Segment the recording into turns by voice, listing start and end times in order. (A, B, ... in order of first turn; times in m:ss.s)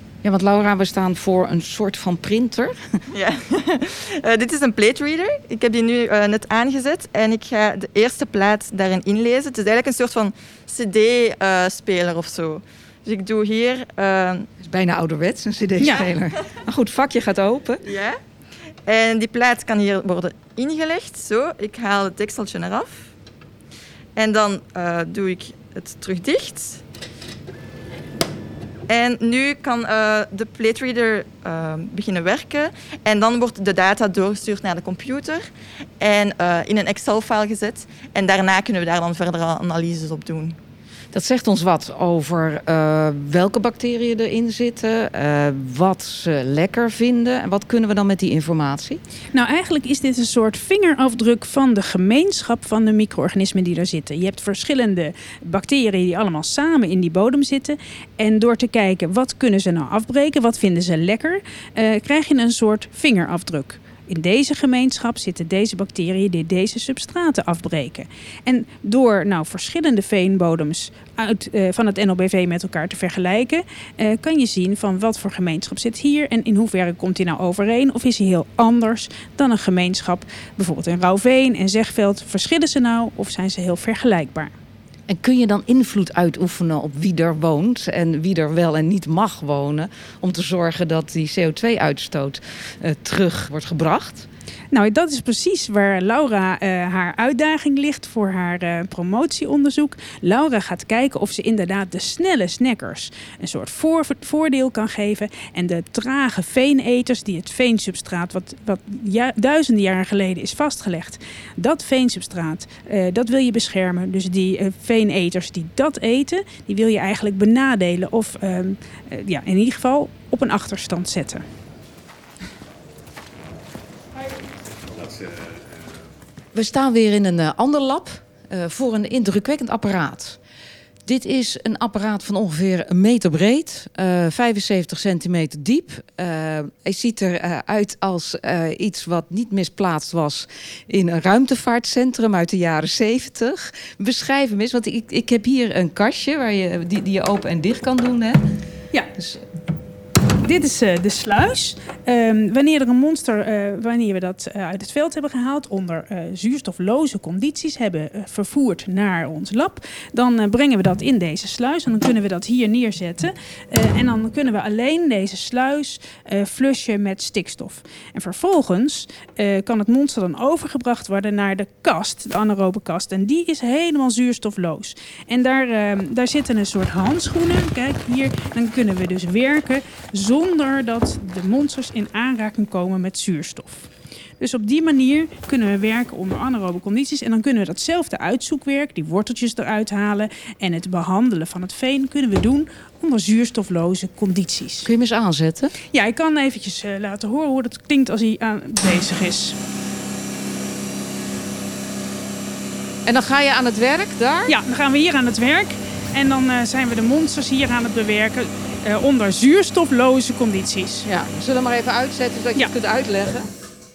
0:00.2-0:03.0 A
0:03.1-0:14.5 B
0:14.6-0:17.8 A
0:15.8-0:16.1 C
0:17.8-0:18.2 B
0:18.8-0:23.1 B
0:24.1-0:26.8 B
0:28.9-0:35.5 B
0:36.0-0:40.6 B
0:41.1-0:49.0 A
0:49.3-1:24.5 C
1:25.1-1:34.3 A
1:34.7-2:01.4 C
2:06.5-2:10.4 A
2:11.0-2:28.4 A
2:29.2-2:29.4 A
2:30.4-3:14.9 C
3:14.8-3:15.7 A
3:15.9-3:19.6 C
3:23.0-3:24.5 A
3:24.5-3:31.1 C
3:31.0-3:33.5 A